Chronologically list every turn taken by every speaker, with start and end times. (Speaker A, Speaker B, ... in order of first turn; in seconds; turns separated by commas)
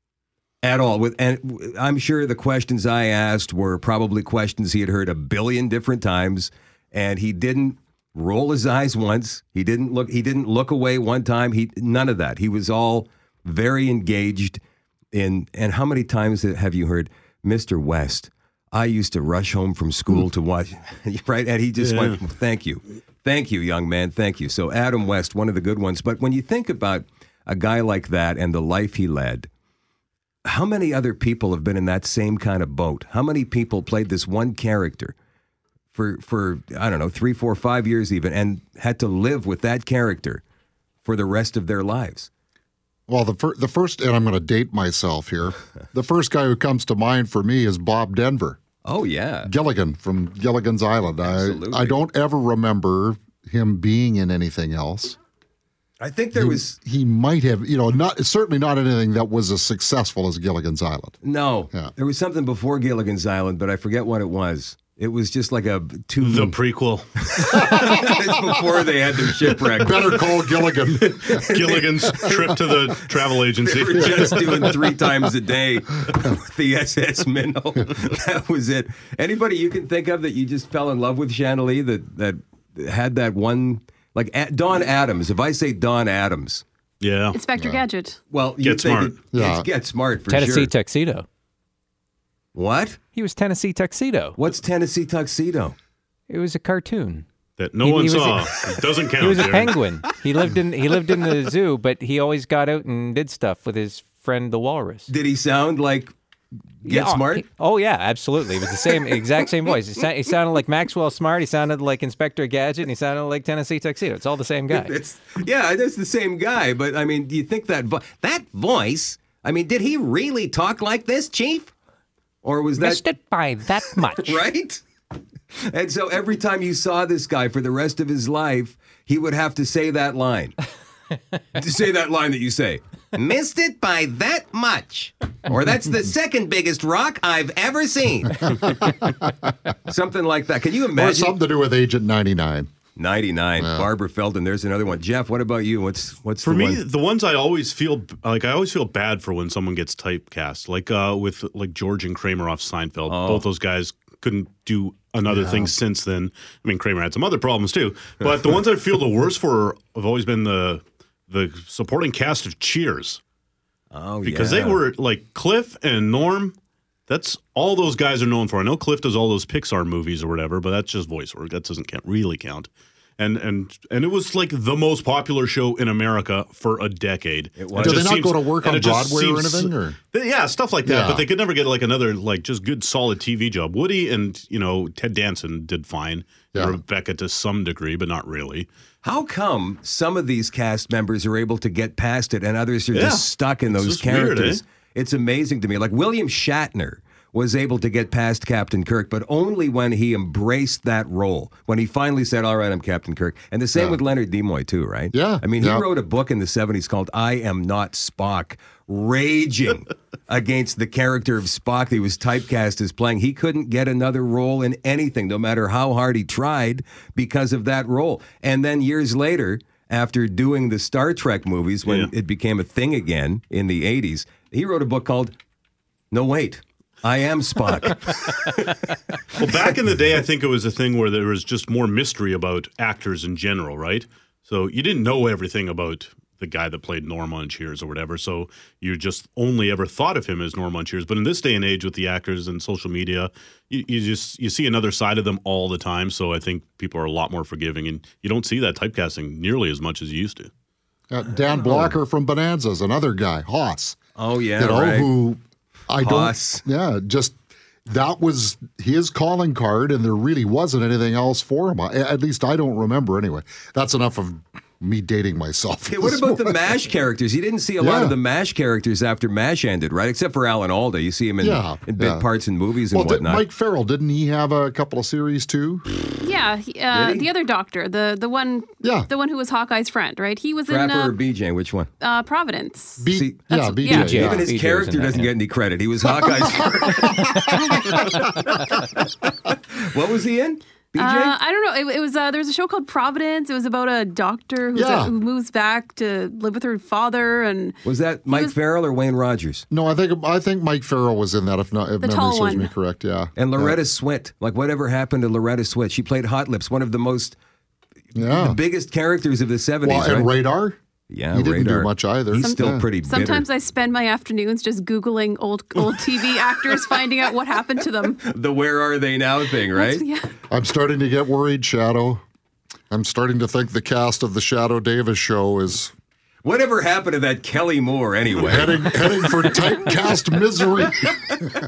Speaker A: 0.6-14.6, Speaker A: 15.1-29.5, Speaker B: 21.8-22.2, Speaker A: 30.4-35.1, Speaker A: 35.9-40.4, Speaker A: 41.0-42.3, Speaker C: 43.1-48.6, Speaker A: 48.8-49.5, Speaker C: 49.4-55.2, Speaker A: 51.2-52.0, Speaker A: 56.0-56.8, Speaker C: 56.3-61.2, Speaker A: 61.2-66.6, Speaker B: 66.2-67.1, Speaker A: 67.2-86.6, Speaker C: 69.8-71.5, Speaker B: 71.5-74.7, Speaker C: 74.1-74.7, Speaker B: 87.0-87.4, Speaker D: 87.3-88.2, Speaker C: 87.5-87.8, Speaker A: 88.3-90.7, Speaker B: 88.6-89.1, Speaker C: 89.3-89.7, Speaker E: 90.3-91.2, Speaker A: 92.5-93.0, Speaker E: 93.1-94.4, Speaker A: 94.3-95.8, Speaker E: 96.3-97.2, Speaker B: 97.6-99.8, Speaker E: 97.8-105.1, Speaker A: 105.1-106.1, Speaker A: 106.8-107.4, Speaker E: 106.8-115.0, Speaker A: 114.7-121.7, Speaker A: 122.4-123.0, Speaker E: 122.8-124.5, Speaker A: 123.9-124.8, Speaker A: 125.5-130.5, Speaker A: 131.5-138.7, Speaker C: 138.5-139.1, Speaker A: 139.8-141.4, Speaker C: 140.9-142.7, Speaker A: 142.9-146.8, Speaker C: 143.6-143.9, Speaker B: 146.4-163.2, Speaker A: 153.1-153.4, Speaker A: 163.9-164.8, Speaker B: 164.2-166.5, Speaker B: 167.1-188.7, Speaker A: 177.6-178.1, Speaker C: 177.8-180.0, Speaker C: 180.8-181.3, Speaker A: 189.0-225.4, Speaker B: 192.9-194.6, Speaker C: 205.1-205.9, Speaker B: 221.8-222.1, Speaker A: 226.1-229.0, Speaker B: 229.3-250.5, Speaker C: 251.1-254.0, Speaker A: 251.3-251.9, Speaker A: 254.2-255.2, Speaker C: 254.6-266.7, Speaker A: 256.0-256.6, Speaker A: 265.9-273.4, Speaker C: 267.8-268.1, Speaker C: 271.4-272.2, Speaker C: 272.9-275.8, Speaker D: 276.2-281.2, Speaker A: 276.9-277.3, Speaker C: 278.8-279.1, Speaker A: 280.7-281.9, Speaker D: 282.0-284.1, Speaker C: 283.0-284.5, Speaker A: 283.1-288.8, Speaker E: 283.9-285.3, Speaker E: 287.9-288.2, Speaker A: 289.7-291.3, Speaker D: 291.0-298.6, Speaker C: 294.7-295.1, Speaker A: 297.8-299.6, Speaker C: 299.7-303.8, Speaker D: 302.0-302.7, Speaker A: 303.4-307.4, Speaker C: 308.1-308.6, Speaker A: 308.1-310.3, Speaker C: 309.8-310.8, Speaker A: 311.1-313.5, Speaker C: 311.3-312.9, Speaker D: 312.4-318.2, Speaker A: 318.2-320.0, Speaker D: 319.7-320.3, Speaker C: 320.5-322.2, Speaker C: 322.9-325.9, Speaker A: 326.4-329.7, Speaker C: 328.4-331.4